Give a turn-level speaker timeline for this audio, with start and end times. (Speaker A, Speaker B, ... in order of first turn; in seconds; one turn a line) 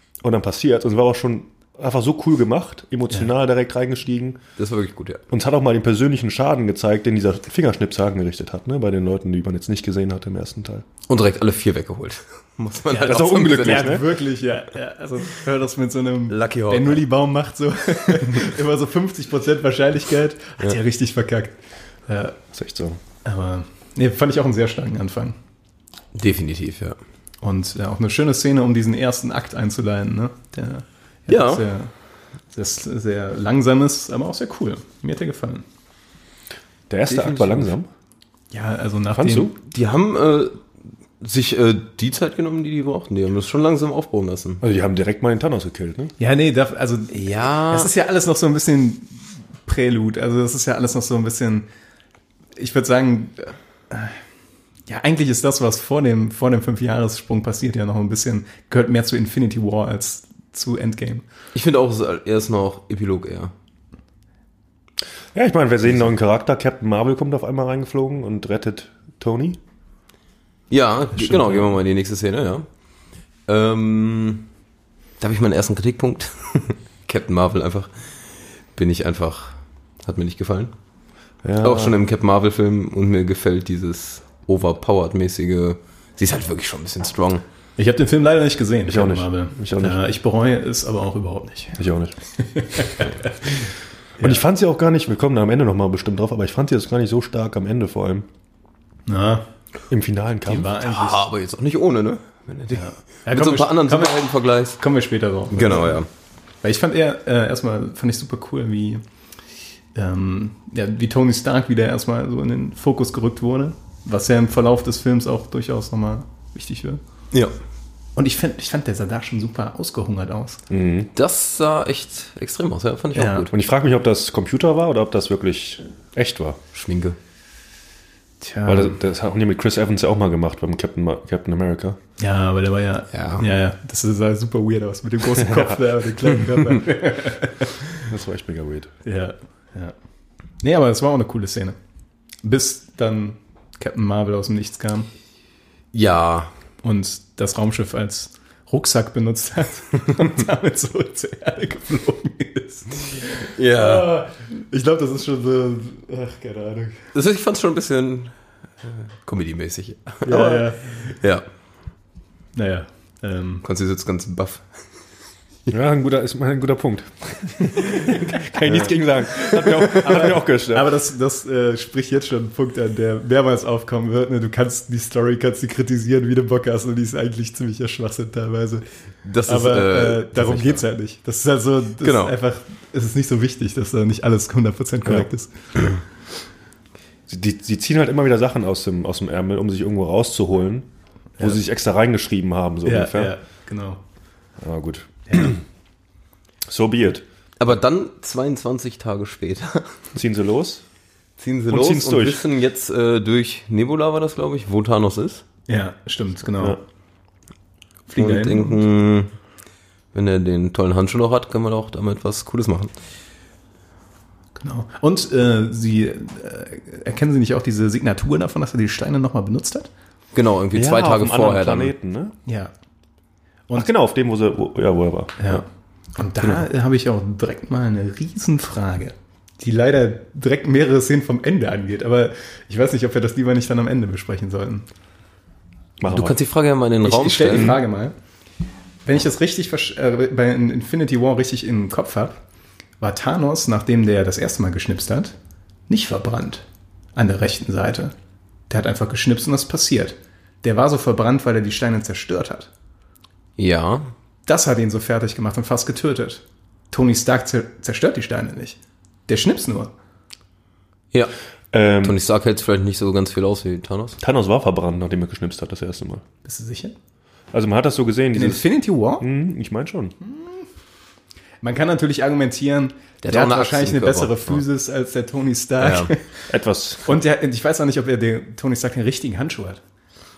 Speaker A: 0.2-4.4
Speaker B: 4.6-5.2
Speaker A: 5.3-10.8
Speaker B: 11.1-14.0
Speaker C: 12.9-22.4
Speaker A: 13.0-14.1
Speaker B: 16.3-17.0
Speaker A: 22.5-23.0
Speaker C: 23.2-25.4
Speaker B: 26.1-27.0
Speaker C: 27.4-31.9
Speaker B: 31.3-31.6
Speaker C: 32.5-35.6
Speaker A: 36.9-37.9
Speaker B: 37.1-37.6
Speaker C: 38.5-39.5
Speaker A: 39.1-39.5
Speaker B: 39.5-40.6
Speaker B: 41.2-44.6
Speaker A: 44.6-46.1
Speaker C: 46.2-51.7
Speaker B: 47.1-47.9
Speaker C: 52.5-54.2
Speaker C: 54.9-61.2
Speaker B: 61.5-63.5
Speaker A: 65.3-69.6
Speaker B: 70.7-72.7
Speaker C: 71.2-71.7
Speaker B: 73.5-74.5
Speaker B: 75.2-77.9
Speaker B: 78.7-80.7
Speaker A: 81.4-82.0
Speaker B: 81.6-87.4
Speaker C: 87.8-91.8
Speaker A: 88.9-90.0
Speaker A: 91.8-92.2
Speaker C: 92.3-94.4
Speaker A: 94.2-98.3
Speaker C: 99.1-99.5
Speaker A: 99.9-100.7
Speaker C: 100.5-101.2
Speaker B: 100.8-104.8
Speaker C: 102.7-104.3
Speaker C: 104.8-106.0
Speaker B: 105.5-106.1
Speaker C: 106.6-109.0
Speaker C: 109.9-117.0
Speaker C: 118.2-120.6
Speaker A: 120.7-121.1
Speaker B: 121.1-123.5
Speaker C: 123.1-123.5
Speaker A: 123.5-126.6
Speaker B: 126.7-127.2
Speaker C: 128.4-129.0
Speaker A: 128.7-132.0
Speaker C: 132.2-138.0
Speaker B: 133.1-133.4
Speaker A: 135.4-135.8
Speaker A: 138.1-138.9
Speaker C: 139.0-139.9
Speaker C: 140.6-141.8
Speaker C: 142.4-145.1
Speaker B: 145.9-146.5
Speaker C: 146.8-157.0
Speaker B: 153.5-154.1
Speaker B: 157.1-161.4
Speaker C: 160.2-161.2
Speaker C: 162.5-163.6
Speaker B: 163.6-164.7
Speaker A: 165.7-170.9
Speaker C: 169.8-178.8
Speaker B: 179.2-180.8
Speaker C: 179.4-185.5
Speaker B: 182.0-182.3
Speaker A: 187.3-190.9
Speaker A: 191.4-193.3
Speaker C: 192.8-194.0
Speaker A: 194.6-195.6
Speaker C: 195.3-195.6
Speaker A: 196.7-197.2
Speaker B: 197.6-200.1
Speaker A: 200.2-200.8
Speaker B: 201.4-205.4
Speaker A: 201.7-202.4
Speaker C: 205.7-206.8
Speaker C: 208.1-208.8
Speaker B: 208.2-209.3
Speaker B: 210.1-212.9
Speaker C: 214.6-219.9
Speaker B: 220.3-221.9
Speaker A: 220.7-222.3
Speaker C: 222.4-222.7
Speaker A: 223.7-225.6
Speaker C: 225.4-234.9
Speaker A: 236.0-236.3
Speaker B: 236.0-237.7
Speaker C: 237.0-238.1
Speaker A: 237.5-237.8
Speaker C: 239.0-242.4
Speaker C: 243.0-245.3
Speaker C: 245.9-248.1
Speaker C: 248.7-252.7
Speaker B: 253.6-254.1
Speaker C: 254.4-259.9
Speaker A: 261.7-262.2
Speaker B: 262.0-264.2
Speaker A: 264.2-266.2
Speaker C: 266.4-266.9
Speaker A: 267.5-268.7
Speaker C: 268.3-269.2
Speaker A: 269.2-270.1
Speaker C: 270.2-270.6
Speaker C: 271.6-276.4
Speaker B: 273.2-274.6
Speaker B: 275.8-276.1
Speaker A: 276.5-277.1
Speaker C: 277.0-279.8